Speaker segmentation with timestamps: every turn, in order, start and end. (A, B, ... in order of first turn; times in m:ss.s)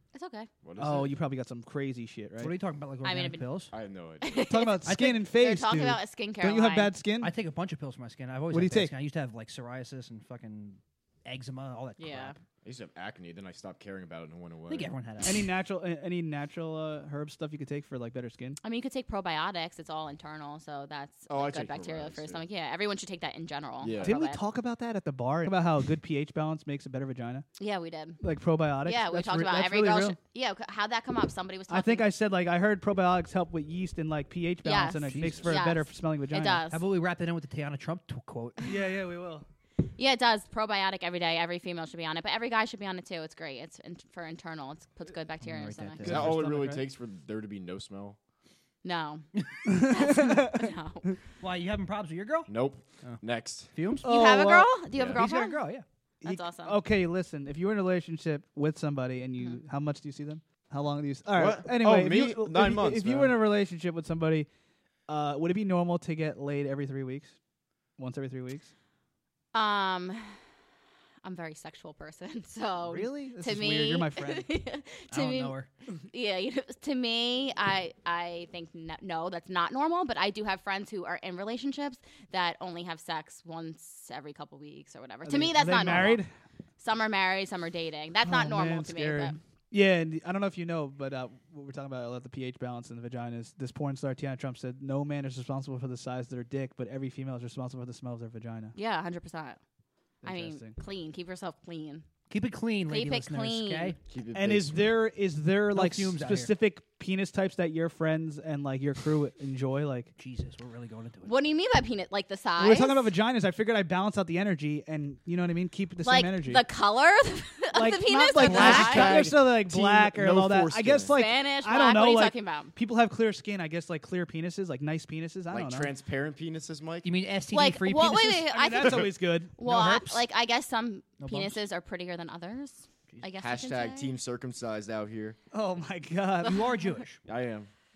0:00.1-0:00.5 A
0:00.6-0:01.1 B
0:00.8-0:02.5 C
0:02.4-0:03.7 D
0:03.0-0:03.6 A
0:03.7-0:04.5 B
0:04.2-0:06.9 A
0:04.4-0:07.3 C
0:04.9-0:05.2 D
0:07.2-0:12.4 D
0:08.5-0:08.9 C
0:12.0-0:12.4 A
0:12.6-0:14.9 B
0:14.7-0:15.5 D
0:15.2-0:18.6 C
0:18.6-0:24.4 A
0:21.3-0:22.4 B
0:23.8-0:24.1 B
0:24.0-0:27.4 C
0:27.6-0:28.2 A
0:28.2-0:30.2 C
0:28.8-0:32.1 A
0:31.7-0:36.6 C
0:34.6-0:36.8 A
0:35.1-0:35.6 D
0:36.7-0:38.7 D
0:38.6-0:39.4 C
0:40.0-0:46.0 A
0:45.4-0:46.4 D
0:46.0-0:46.8 C
0:46.0-0:48.2 B
0:48.8-0:51.2 A
0:49.7-0:50.7 C
0:51.4-0:52.5 D
0:52.5-0:53.7 B
0:53.0-0:54.0 D
0:54.0-0:54.7 C
0:54.0-0:55.6 A
0:55.1-0:55.8 D
0:56.2-1:04.5 C
0:56.2-0:56.8 A
1:01.4-1:03.4 B
1:05.1-1:07.4 C
1:08.0-1:08.7 C
1:09.5-1:10.4 A
1:11.2-1:15.6 A
1:12.8-1:14.5 C
1:15.1-1:15.7 D
1:16.1-1:26.2 A
1:25.2-1:26.3 C
1:26.8-1:29.4 A
1:28.2-1:38.7 C
1:38.7-1:39.6 A
1:40.2-1:40.7 C
1:40.2-1:42.1 A
1:42.3-1:44.0 D
1:42.9-1:44.0 A
1:44.1-1:45.0 B
1:44.3-1:50.1 C
1:45.7-1:46.5 D
1:50.2-1:51.4 D
1:51.3-1:53.1 A
1:52.6-1:56.6 C
1:56.0-1:59.2 A
1:57.7-2:05.9 C
1:58.4-2:01.1 B
2:01.1-2:02.7 A
2:05.5-2:07.1 B
2:07.0-2:08.5 D
2:07.5-2:14.1 A
2:08.5-2:10.0 C
2:09.6-2:10.2 D
2:11.2-2:11.6 D
2:13.4-2:15.4 B
2:15.5-2:16.7 C
2:16.4-2:17.2 D
2:17.2-2:17.7 B